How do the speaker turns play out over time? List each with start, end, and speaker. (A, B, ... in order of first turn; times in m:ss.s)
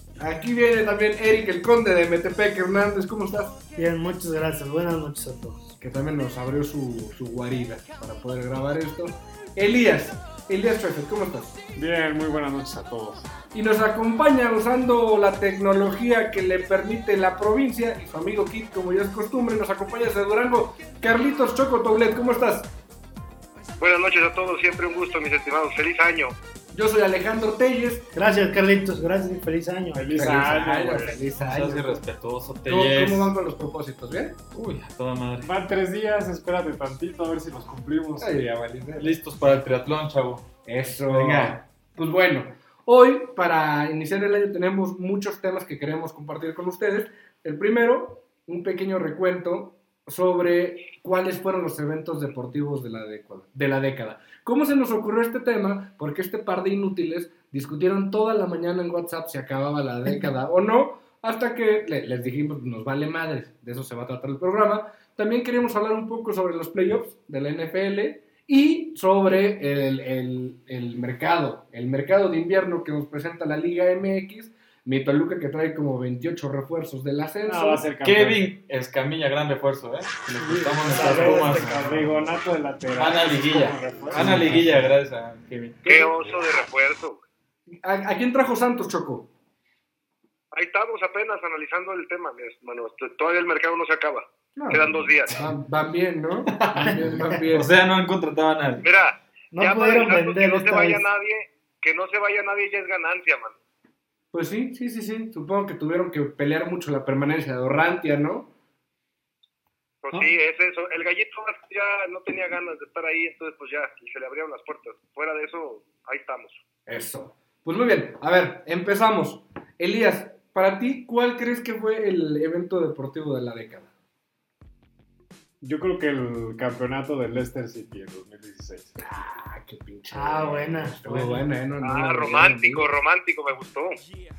0:00.2-0:03.6 A
0:03.7-0:05.7 B
0:05.8-0:11.6 A
0:11.8-0:13.3 C
0:13.5-0:22.7 A
0:23.8-0:26.3 D
0:26.7-0:28.1 A
0:28.1-0:30.1 B
0:29.9-0:31.3 C
0:30.1-0:32.0 A
0:31.4-0:33.3 E
0:32.6-0:34.4 A
0:34.5-0:35.5 E
0:35.4-0:38.5 C
0:38.2-0:39.1 A
0:39.0-0:40.4 E
0:40.6-1:17.9 A
0:41.1-0:41.6 E
1:17.4-1:18.5 C
1:18.0-1:22.3 E
1:20.4-1:24.6 C
1:21.0-1:21.3 B
1:22.9-1:26.0 E
1:24.1-1:24.9 A
1:25.8-1:27.2 D
1:27.8-1:29.3 A
1:30.5-1:35.3 D
1:34.6-1:37.7 A
1:36.5-1:38.8 E
1:38.8-1:43.6 D
1:39.5-1:41.0 B
1:44.3-1:48.5 A
1:50.0-1:56.6 D
1:56.9-2:03.9 A
2:05.6-2:09.0 C
2:09.0-2:12.9 A
2:10.1-2:11.0 B
2:11.8-2:14.0 D